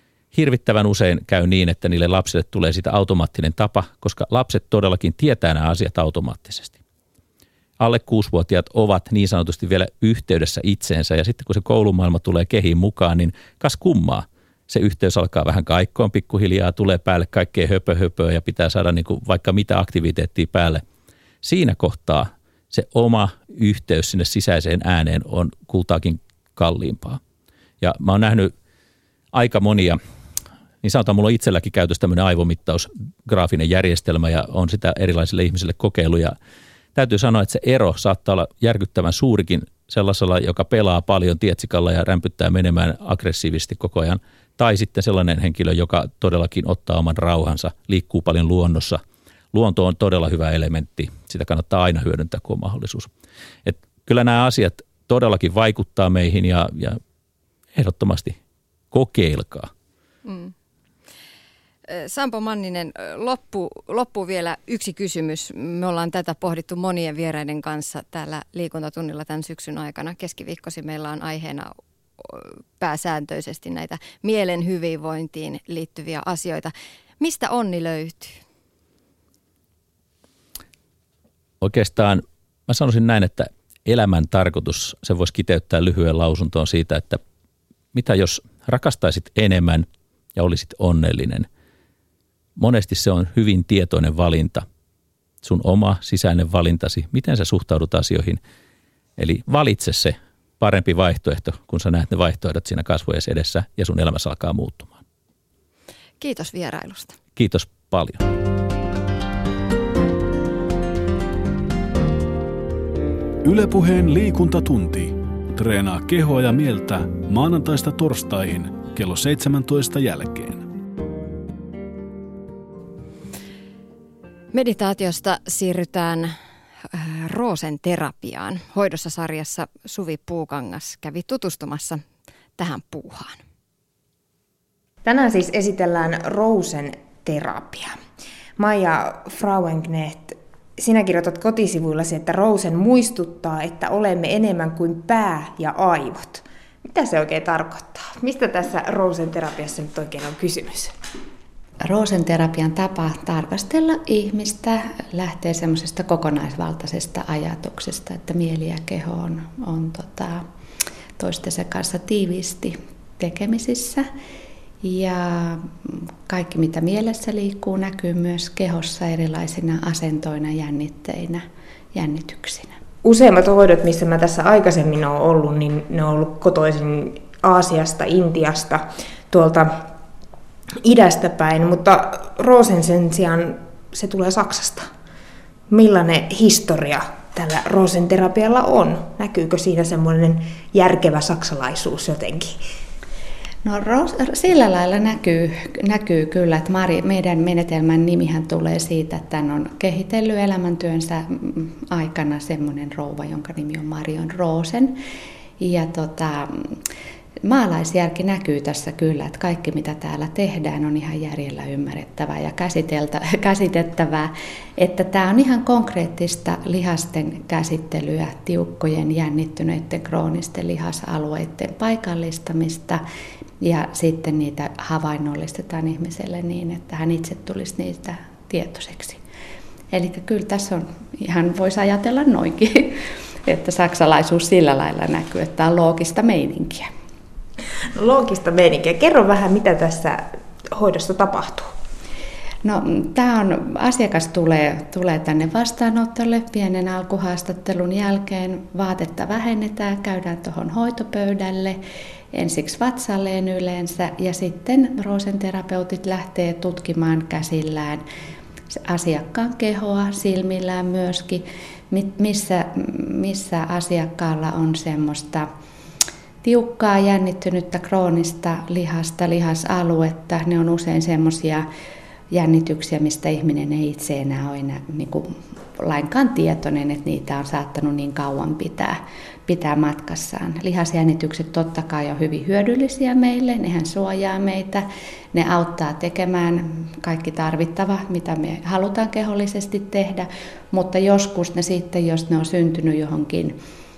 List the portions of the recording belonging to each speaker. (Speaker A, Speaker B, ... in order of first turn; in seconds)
Speaker A: 0.3-6.8, 7.8-20.8, 21.4-27.2, 27.8-28.5, 29.3-30.0, 30.8-36.4, 37.0-49.0, 49.5-53.1, 53.6-57.0, 57.8-58.4, 58.9-59.7, 81.6-87.2, 87.9-91.5, 92.6-94.7, 95.4-98.4, 99.2-105.0, 107.4-108.2
Speaker B: 60.2-60.5, 61.9-78.4, 106.2-107.2, 124.5-126.3, 126.9-132.0, 132.6-133.4
Speaker C: 113.4-120.7
Speaker D: 135.0-138.0, 138.6-150.9, 173.0-179.9, 180.8-184.9, 185.7-192.6, 237.9-241.7
Speaker E: 151.8-160.4, 161.2-164.1, 164.8-172.8, 193.6-205.0, 205.6-206.8, 207.4-223.0, 223.6-229.2, 229.9-236.9, 242.6-251.8, 252.3-258.0, 258.8-265.5, 266.4-271.7, 272.3-293.6